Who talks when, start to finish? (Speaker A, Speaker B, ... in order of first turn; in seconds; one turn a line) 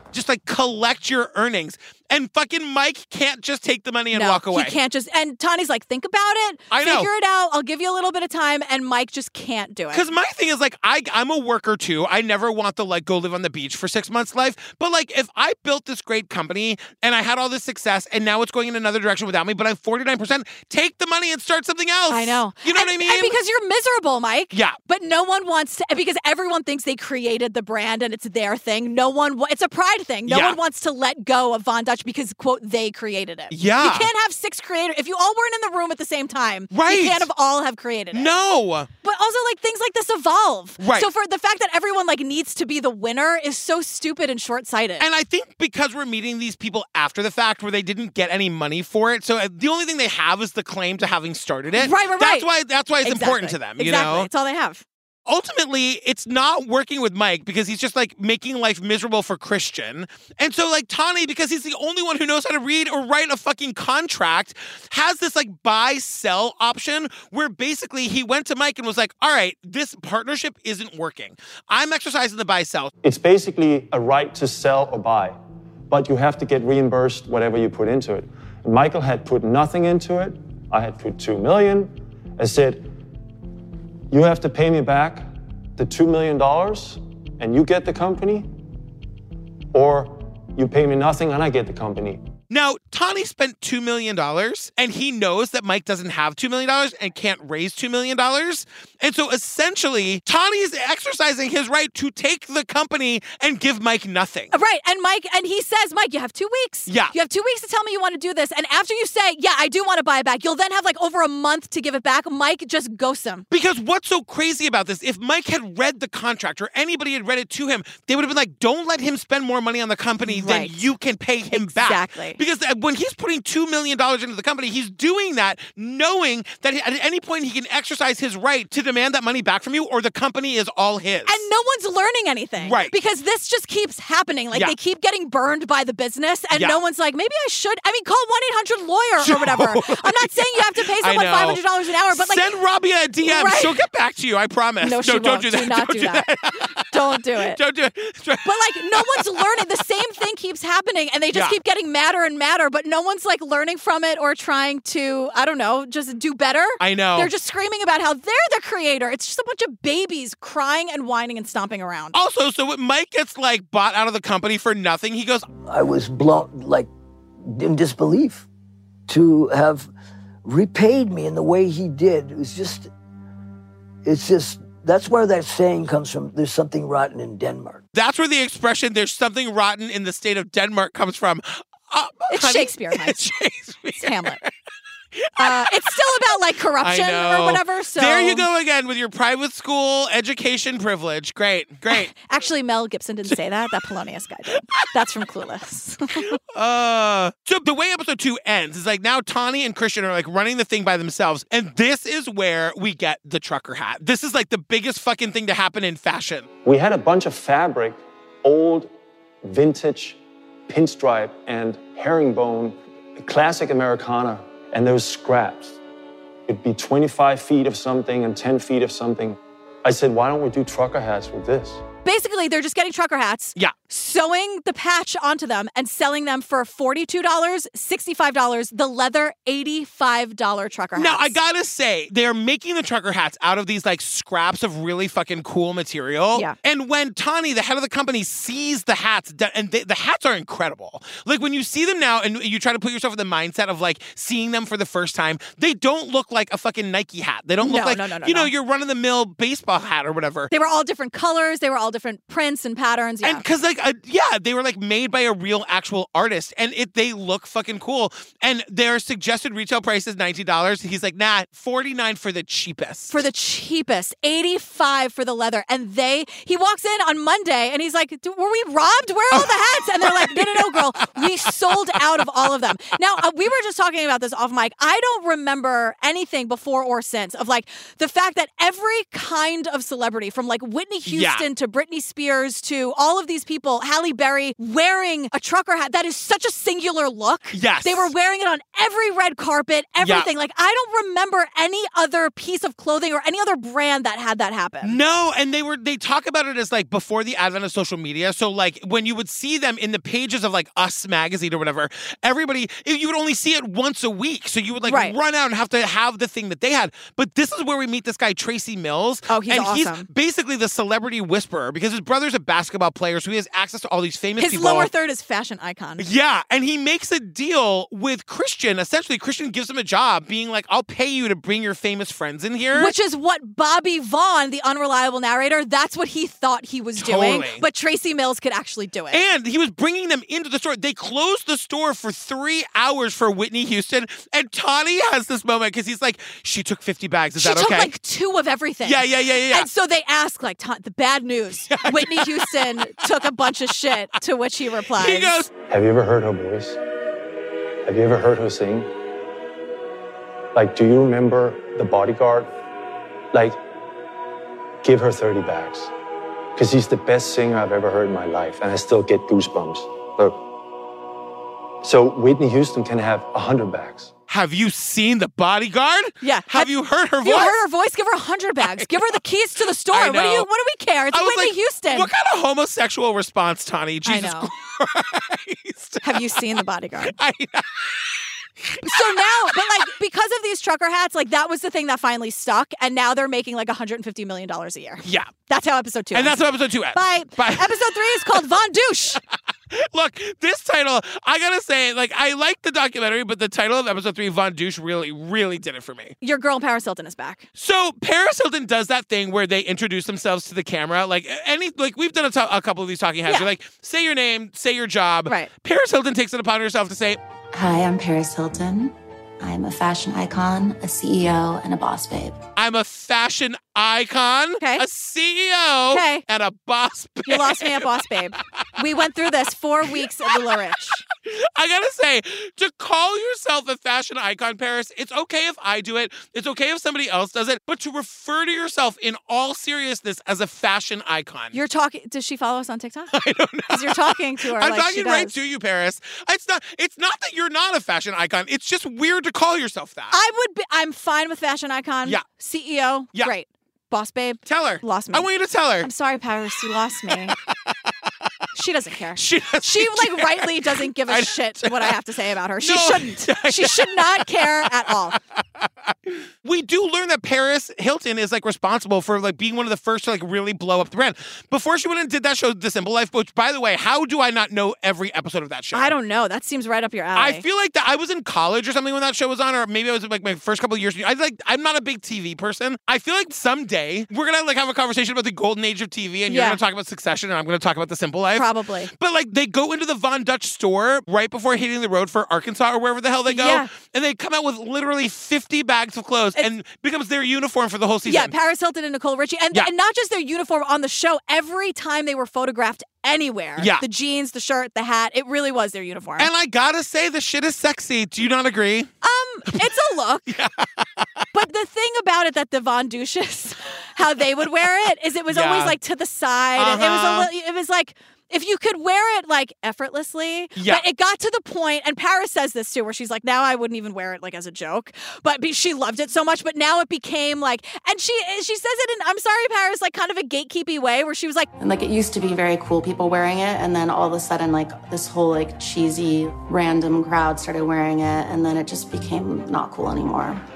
Speaker A: 0.1-4.8
Speaker B: 4.1-10.0
Speaker A: 6.7-7.1
Speaker A: 9.9-23.4
Speaker B: 22.1-38.3
Speaker A: 30.3-30.6
Speaker A: 33.5-34.1
Speaker A: 36.7-37.3
Speaker A: 38.1-38.9
Speaker B: 39.0-45.0
Speaker A: 40.8-41.1
Speaker A: 45.0-54.3
Speaker B: 51.8-52.5
Speaker B: 53.0-54.8
Speaker A: 55.3-72.9
Speaker C: 73.0-75.4
Speaker C: 75.9-82.9
Speaker C: 84.1-88.5
Speaker C: 89.7-92.2
Speaker A: 92.5-104.5
Speaker B: 104.5-113.5
Speaker A: 106.9-107.1
Speaker A: 113.5-131.4
Speaker B: 120.2-120.8
Speaker B: 121.5-122.4
Speaker B: 131.2-142.5
Speaker A: 132.6-132.9
Speaker A: 139.2-149.6
Speaker B: 143.2-143.8
Speaker B: 144.8-146.2
Speaker B: 146.9-147.6
Speaker B: 148.4-162.1
Speaker A: 151.3-151.6
Speaker A: 156.8-157.3
Speaker A: 162.1-165.4
Speaker D: 165.7-166.9
Speaker D: 167.4-168.5
Speaker D: 169.1-169.9
Speaker D: 170.4-172.9
Speaker D: 174.0-177.8
Speaker A: 177.9-184.5
Speaker B: 182.3-183.2
Speaker B: 184.0-184.4
Speaker A: 185.2-185.9
Speaker B: 185.4-188.4
Speaker A: 186.8-192.1
Speaker B: 191.9-196.3
Speaker A: 196.3-206.5
Speaker C: 206.6-208.9
Speaker C: 209.4-215.8
Speaker C: 216.5-221.8
Speaker B: 222.0-231.4
Speaker A: 230.9-250.5
Speaker B: 247.6-248.5
Speaker B: 250.5-253.4
Speaker A: 253.2-263.2
Speaker B: 263.1-295.0
Speaker A: 269.3-271.5
Speaker A: 281.1-281.4
Speaker A: 287.5-288.1
Speaker A: 290.0-290.3
Speaker A: 294.8-314.9
Speaker B: 304.9-305.1
Speaker B: 309.3-310.1
Speaker B: 314.4-316.1
Speaker A: 316.0-322.9
Speaker B: 322.7-329.2
Speaker A: 327.0-327.6
Speaker A: 329.1-337.9
Speaker B: 337.4-345.4
Speaker A: 338.8-339.7
Speaker A: 341.7-342.8
Speaker A: 344.9-345.5
Speaker C: 345.7-346.8
Speaker C: 347.8-348.9
Speaker C: 350.5-352.5
Speaker C: 353.3-353.6
Speaker C: 354.8-355.9
Speaker C: 356.5-360.4
Speaker C: 361.8-364.1
Speaker A: 364.3-367.6
Speaker B: 366.2-366.7
Speaker B: 367.2-372.1
Speaker A: 368.6-368.9
Speaker A: 369.9-370.5
Speaker A: 371.1-376.4
Speaker B: 374.1-374.5
Speaker B: 376.0-377.1
Speaker A: 377.0-379.6
Speaker B: 378.8-386.4
Speaker A: 385.0-385.3
Speaker A: 386.1-388.4
Speaker B: 386.9-389.2
Speaker A: 389.7-396.1
Speaker B: 396.2-397.4
Speaker A: 397.6-407.2
Speaker E: 407.5-412.4
Speaker A: 412.6-418.0
Speaker B: 415.9-416.2
Speaker B: 417.3-421.0
Speaker A: 419.9-420.6
Speaker A: 421.2-431.6
Speaker B: 431.5-433.1
Speaker A: 433.1-440.1
Speaker B: 433.7-435.3
Speaker B: 440.1-445.3
Speaker A: 444.4-445.9
Speaker B: 445.8-447.3
Speaker A: 447.5-447.7
Speaker B: 448.5-455.2
Speaker A: 449.1-451.9
Speaker A: 452.6-455.2
Speaker A: 456.4-465.9
Speaker B: 465.7-467.4
Speaker A: 467.1-488.3
Speaker B: 476.3-476.6
Speaker B: 478.3-478.9
Speaker B: 483.3-483.7
Speaker B: 488.0-496.3
Speaker A: 493.6-493.8
Speaker A: 496.2-498.9
Speaker B: 499.0-500.3
Speaker A: 500.3-501.2
Speaker B: 501.3-521.5
Speaker A: 505.3-505.8
Speaker A: 506.6-507.3
Speaker A: 510.6-510.8
Speaker E: 521.6-530.4